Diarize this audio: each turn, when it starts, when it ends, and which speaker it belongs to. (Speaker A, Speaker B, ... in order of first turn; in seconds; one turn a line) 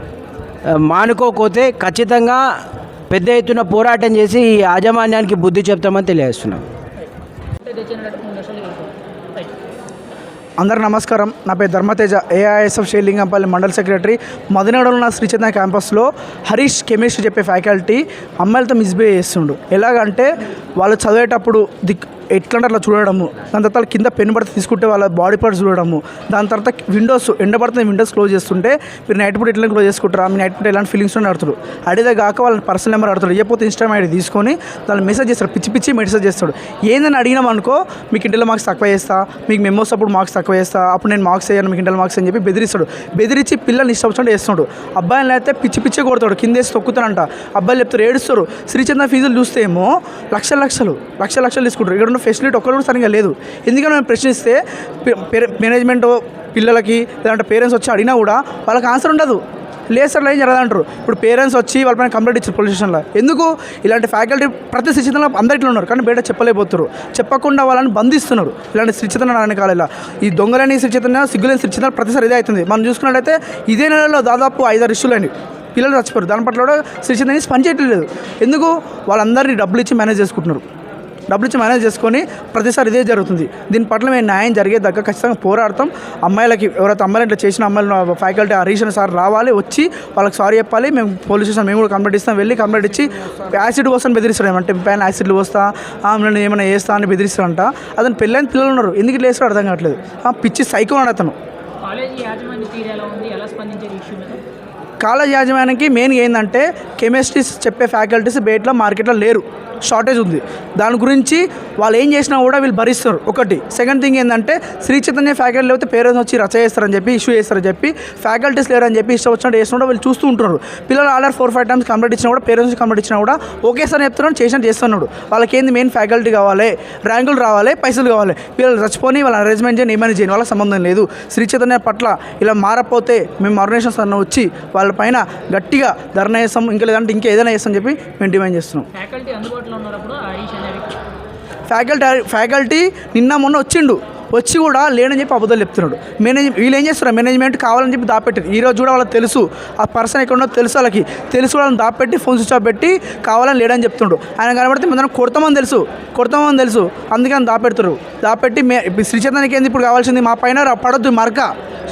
Speaker A: 0.7-2.4
Speaker A: 3.1-6.6
Speaker B: 7.6-9.5
Speaker C: 10.6-59.4
Speaker C: 59.9-80.6
Speaker C: 81.3-101.3
Speaker B: 101.8-104.4
Speaker C: 105.0-138.9
Speaker B: 138.9-141.0
Speaker C: 141.7-161.5